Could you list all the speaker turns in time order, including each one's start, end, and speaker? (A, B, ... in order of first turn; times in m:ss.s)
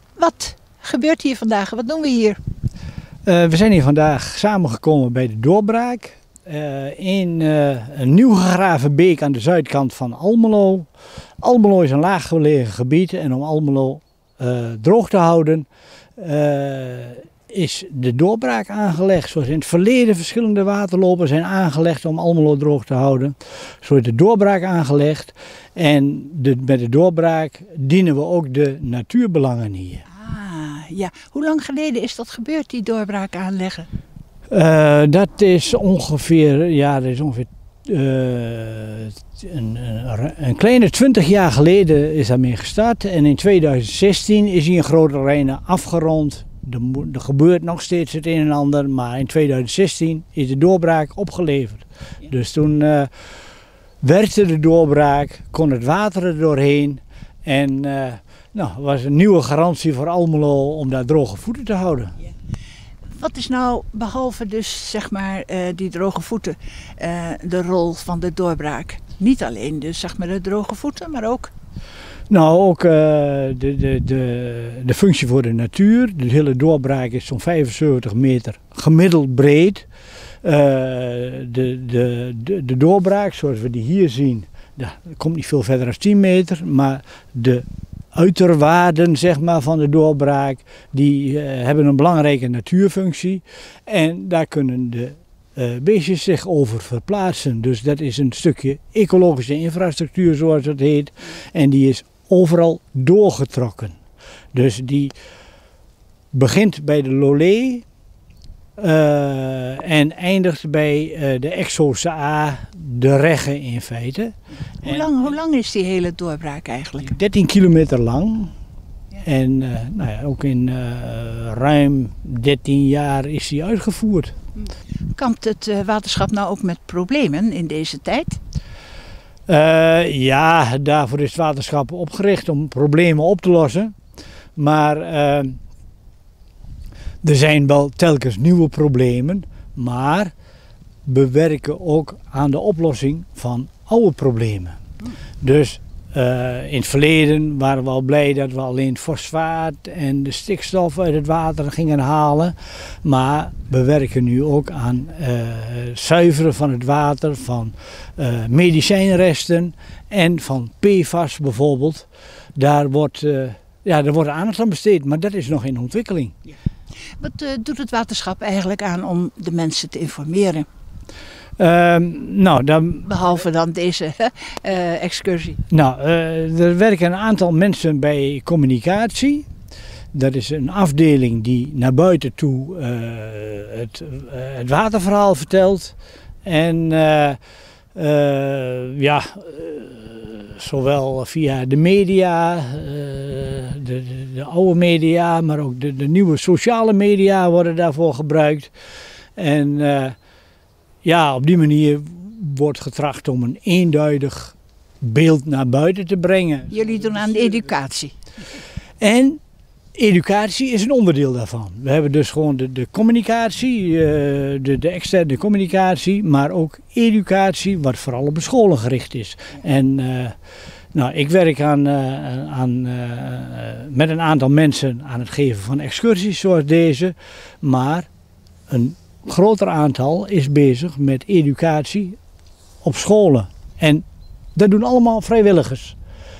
0:00.2-0:02.4 A
0:03.2-0:10.9 B
0:11.4-0:30.0 B
0:30.1-0:33.9 A
0:34.5-0:53.1 B
0:54.0-1:02.1 B
1:03.2-1:11.5 A
1:12.3-1:19.8 B
1:20.4-1:44.0 B
1:44.5-1:45.1 B
1:46.3-1:47.8 B
1:48.8-1:55.1 B
1:54.8-1:57.2 A
1:57.1-1:58.5 B
1:59.2-2:04.3 B
2:05.1-2:08.4 A
2:09.5-2:13.9 B
2:14.6-2:15.6 B
2:17.2-2:20.3 B
2:21.0-2:24.8 B
2:25.4-2:46.3 B
2:47.2-2:50.6 A
2:51.6-2:53.1 B
2:53.0-2:55.6 A
2:55.7-2:59.5 B
3:00.1-3:05.9 B
3:06.4-3:07.4 B
3:07.9-3:18.7 B
3:19.4-3:20.2 B
3:21.0-3:27.6 B
3:26.7-3:28.1 A
3:29.0-3:29.4 B
3:29.9-3:40.3 B
3:40.9-3:48.1 B
3:48.7-3:52.2 B
3:52.8-3:56.0 B